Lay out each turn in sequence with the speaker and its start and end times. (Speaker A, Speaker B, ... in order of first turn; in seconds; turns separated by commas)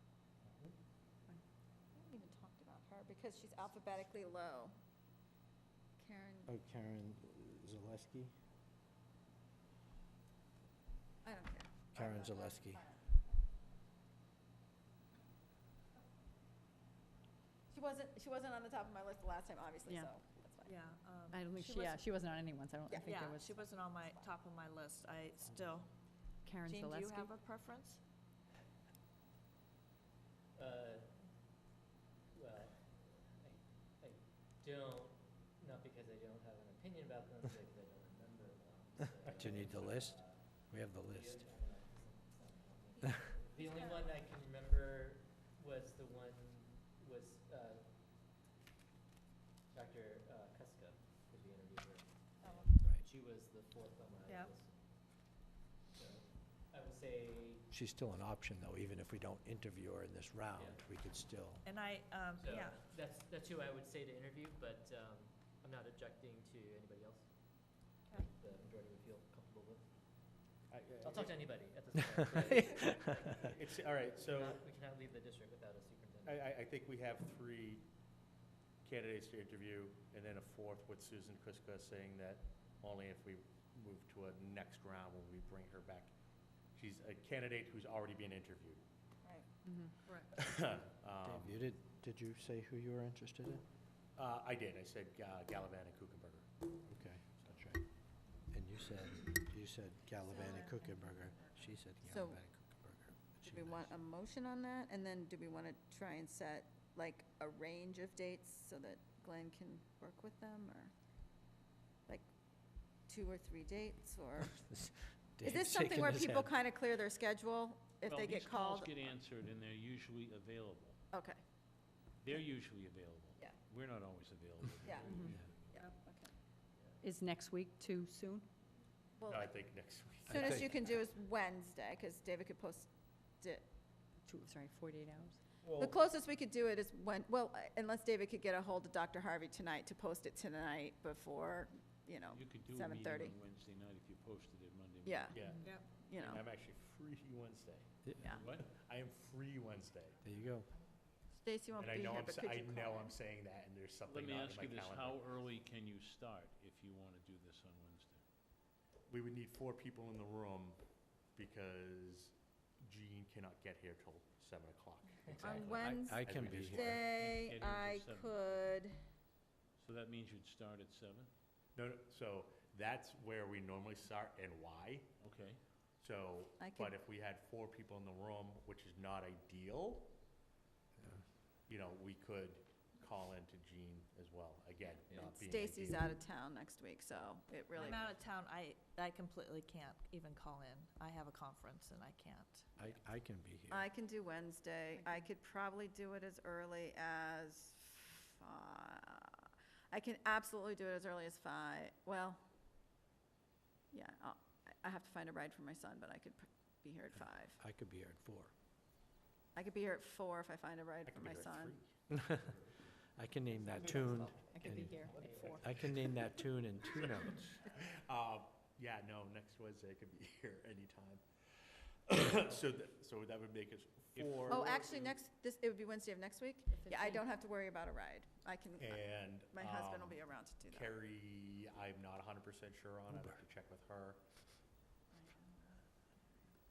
Speaker A: 0.4-0.7, Speaker B: 1.9-4.8, Speaker B: 6.0-6.5, Speaker C: 6.5-8.3, Speaker B: 11.2-13.0, Speaker C: 11.9-12.9, Speaker B: 17.7-20.8, Speaker D: 19.9-20.1, Speaker E: 20.6-22.1, Speaker D: 21.3-23.4, Speaker E: 22.9-25.9, Speaker D: 26.5-27.0, Speaker E: 26.6-28.0, Speaker A: 30.6-31.2, Speaker A: 32.3-47.9, Speaker C: 39.3-41.5, Speaker E: 43.6-44.1, Speaker A: 49.7-57.6, Speaker B: 52.4-52.7, Speaker E: 54.3-54.5, Speaker C: 57.7-61.6, Speaker A: 60.5-60.8, Speaker E: 61.6-62.9, Speaker A: 62.4-70.2, Speaker F: 70.7-71.5, Speaker A: 71.0-76.5, Speaker F: 73.5-74.6, Speaker F: 76.2-77.9, Speaker F: 78.8-86.1, Speaker F: 86.7-88.8, Speaker E: 90.0-90.3, Speaker F: 90.3-91.6, Speaker C: 91.2-93.6, Speaker F: 94.2-96.7, Speaker C: 96.8-97.8, Speaker C: 98.4-103.9, Speaker B: 102.0-102.4, Speaker B: 103.4-110.9, Speaker B: 113.1-114.5, Speaker C: 114.4-116.5, Speaker B: 115.4-119.1, Speaker G: 118.0-121.0, Speaker B: 121.1-121.4, Speaker G: 122.2-125.8, Speaker B: 124.8-125.2, Speaker B: 125.7-126.3, Speaker D: 127.0-128.4, Speaker B: 129.2-129.5, Speaker F: 129.3-130.7, Speaker C: 130.3-130.7, Speaker B: 130.3-132.9, Speaker B: 133.4-133.7, Speaker D: 134.2-135.3, Speaker F: 135.6-136.0, Speaker B: 135.8-143.3, Speaker G: 142.3-145.4, Speaker B: 145.0-146.4, Speaker F: 145.3-150.2, Speaker E: 145.6-145.9, Speaker C: 148.0-148.3, Speaker G: 148.2-148.7, Speaker C: 150.2-150.7, Speaker B: 151.3-153.2, Speaker F: 151.8-155.4, Speaker G: 154.0-158.2, Speaker F: 159.1-160.8, Speaker F: 161.3-167.0, Speaker B: 165.4-168.9, Speaker C: 165.5-167.0, Speaker G: 166.9-168.6, Speaker G: 169.8-171.3, Speaker F: 171.7-175.1, Speaker G: 175.2-175.6, Speaker F: 176.0-180.2, Speaker B: 176.6-177.0, Speaker F: 181.7-186.2, Speaker A: 185.1-185.4, Speaker B: 185.1-188.1, Speaker E: 187.7-192.7, Speaker C: 192.8-193.8, Speaker B: 193.7-202.4, Speaker E: 195.0-195.2, Speaker B: 203.9-207.6, Speaker C: 207.6-208.5, Speaker B: 209.5-211.8, Speaker F: 211.1-212.7, Speaker C: 212.1-212.5, Speaker C: 213.2-217.6, Speaker A: 213.7-216.1, Speaker E: 214.6-215.6, Speaker A: 217.0-217.2, Speaker F: 217.7-221.2, Speaker F: 222.1-225.2, Speaker G: 224.1-224.7, Speaker B: 224.5-230.9, Speaker E: 226.7-227.2, Speaker F: 228.8-234.4, Speaker B: 235.1-235.8